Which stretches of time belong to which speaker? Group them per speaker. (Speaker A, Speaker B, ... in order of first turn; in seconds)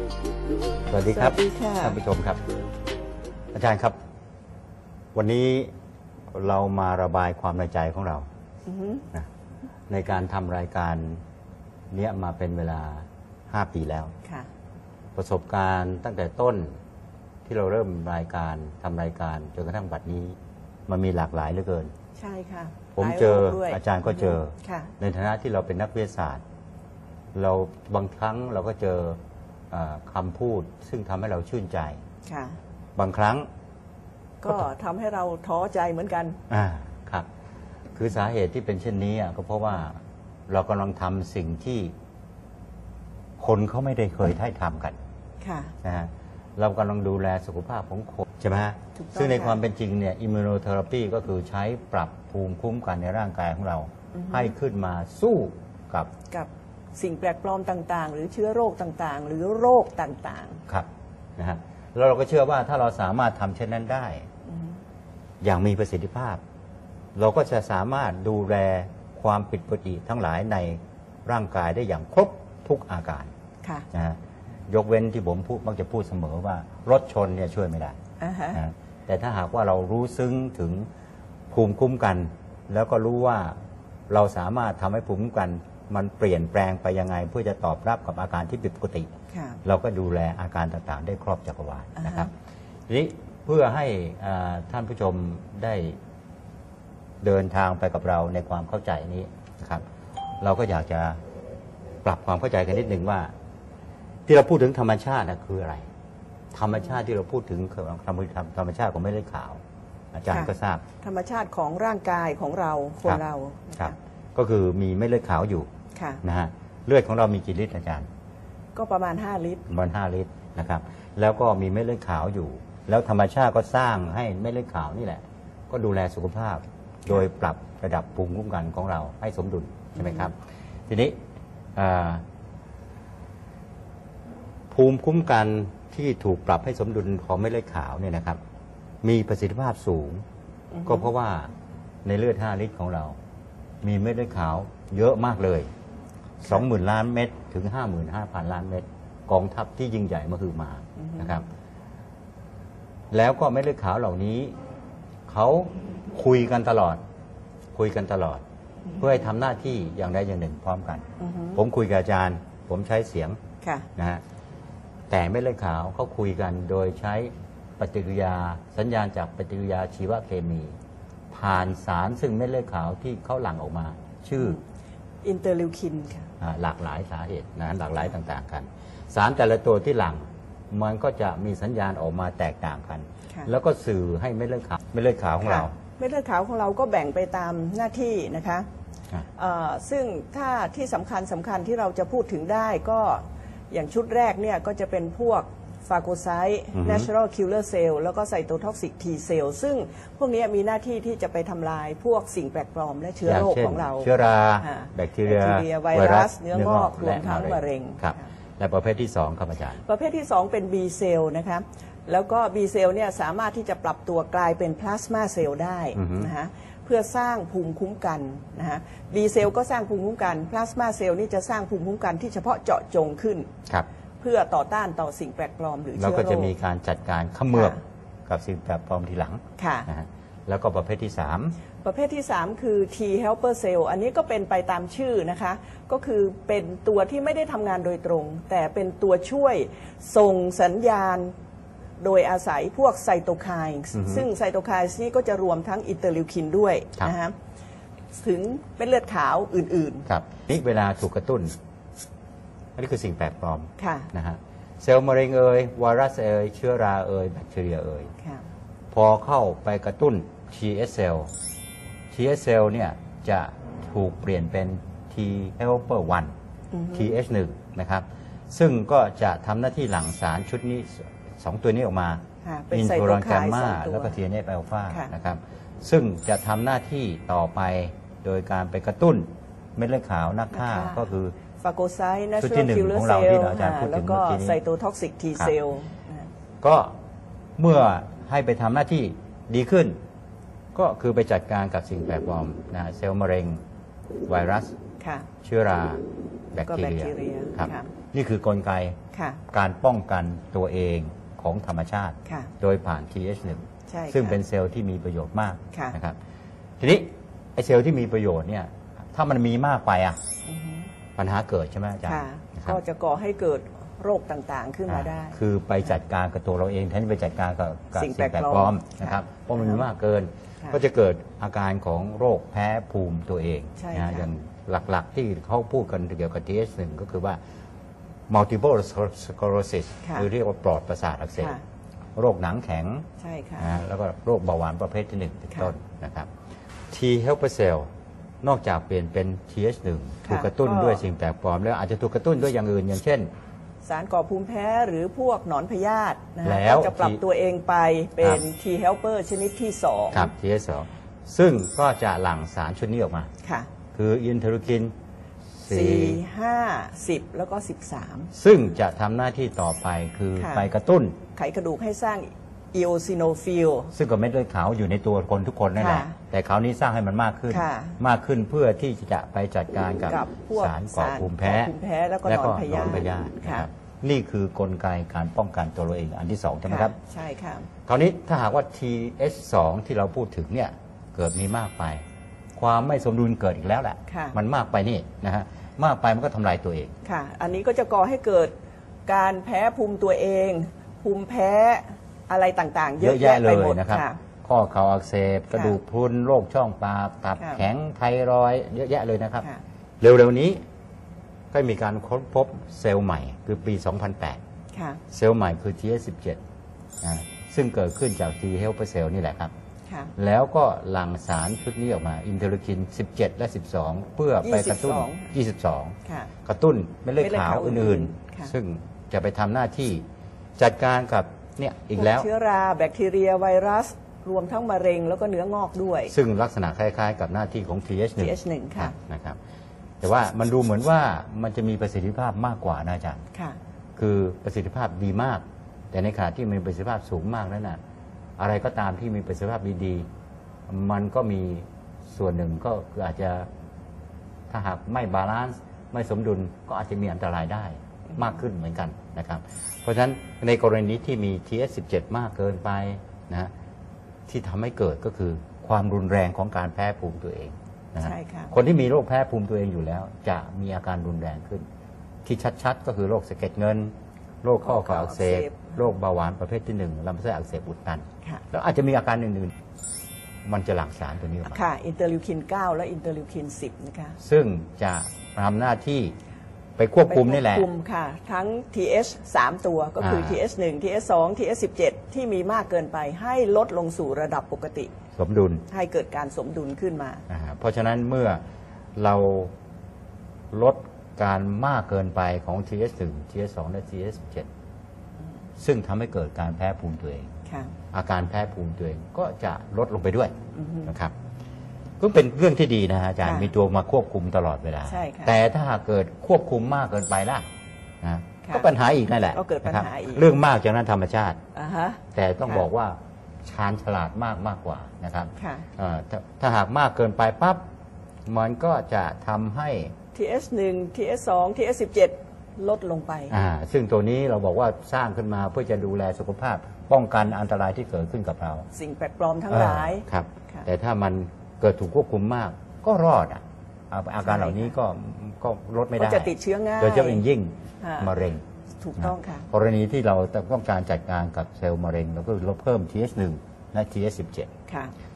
Speaker A: 0.9-2.4, 3.5-4.0, 5.1-5.7, 6.3-8.2, 9.9-11.2, 11.9-14.1, 15.1-16.7, 17.4-21.9, 22.9-26.4, 27.3-29.2, 29.7-32.0, 33.0-33.5, 36.5-37.3, 37.9-41.9, 43.4-45.0, 45.8-56.1, 60.7-64.2, 65.4-66.4, 67.1-73.3, 73.9-74.2, 74.7-78.0, 78.5-80.9, 81.5-83.5, 84.1-89.1, 89.6-92.3, 92.9-96.0, 97.2-99.8, 100.4-101.2, 102.0-103.3, 104.3-105.8, 106.5-109.6, 110.1-110.8, 113.8-115.7, 116.2-118.1, 119.7-130.3, 130.9-131.2, 131.8-132.2, 134.7-138.4, 139.0-140.2, 140.8-141.5, 142.0-143.2, 143.8-145.7, 146.4-151.4, 153.1-154.6, 155.3-157.0, 157.7-158.4, 159.0-163.4, 163.9-164.2, 165.1-170.7, 171.3-174.6, 176.4-185.7, 196.7-197.1, 203.2-209.8, 215.9-216.3, 226.0-231.5, 243.9-244.2, 250.1-251.6, 252.8-258.1, 258.9-261.3, 262.1-266.3, 266.9-281.3, 282.4-284.6, 286.6-286.9, 287.6-289.9, 290.7-293.6, 294.3-294.7, 295.4-299.0, 299.5-306.2, 306.8-310.2, 311.1-312.8, 314.9-327.4, 328.3-331.6, 332.1-333.1, 333.6-336.3, 336.9-337.9, 338.4-343.3, 346.4-347.2, 350.1-353.3, 353.9-354.9, 355.6-356.2, 358.3-361.2, 363.9-371.7, 372.2-376.9, 377.9-382.0, 382.6-386.9, 393.0-399.5, 400.0-400.6, 401.5-404.4, 405.1-406.4, 407.0-409.5, 410.2-420.0, 420.6-422.3, 426.1-429.4, 430.0-433.2, 433.9-437.8, 438.4-440.1, 440.7-443.5, 444.5-453.5, 454.3-461.6, 462.2-469.5, 470.4-471.6, 474.2-476.1, 476.8-477.7, 480.0-480.4, 485.2-485.6, 487.3-488.4, 489.0-489.5, 490.5-494.5, 495.6-497.3, 497.9-500.3, 500.9-501.1, 502.0-507.4, 508.0-511.4, 512.1-517.6, 518.3-519.9, 523.3-528.7, 529.5-538.4, 539.0-544.5
Speaker B: 1.1-2.0, 8.7-9.0, 22.1-24.9, 32.2-32.6, 34.4-36.4, 45.4-45.7, 49.0-49.6, 54.1-54.5, 56.3-60.6, 64.5-64.8, 78.2-78.6, 89.3-89.6, 92.0-92.3, 110.3-114.0, 115.9-116.2, 118.7-119.6, 130.0-130.3, 140.7-141.1, 151.0-151.3, 161.2-161.6, 163.6-163.9, 175.2-176.3, 185.4-188.7, 189.3-208.3, 209.8-223.5, 224.2-226.5, 227.5-227.8, 229.6-229.9, 231.8-241.3, 242.0-247.3, 248.1-250.1, 253.8-254.1, 266.7-267.1, 272.4-274.2, 280.5-281.1, 281.6-286.3, 295.0-295.3, 296.6-297.9, 299.1-299.4, 302.2-302.5, 303.9-304.4, 310.4-310.9, 312.1-315.4, 317.9-319.8, 323.8-324.2, 333.2-333.7, 340.2-341.0, 343.8-350.3, 353.4-353.7, 355.7-358.3, 360.3-360.7, 361.3-363.9, 365.7-366.2, 367.5-368.0, 370.0-373.7, 376.6-377.7, 384.1-384.4, 387.0-388.5, 389.1-394.2, 397.4-397.6, 404.7-405.0, 409.9-410.1, 414.4-415.3, 416.1-416.3, 417.2-418.5, 421.9-426.1, 428.2-428.9, 458.0-458.5, 464.6-465.8, 471.5-474.2, 477.1-484.9, 485.7-487.2, 497.5-497.7, 500.5-500.9, 503.2-503.5, 504.9-505.4, 509.3-510.3, 511.5-512.6, 515.4-515.6, 520.1-523.4, 528.7-530.6, 534.2-534.7, 536.0-537.2, 537.8-538.1, 538.8-539.5, 544.7-544.9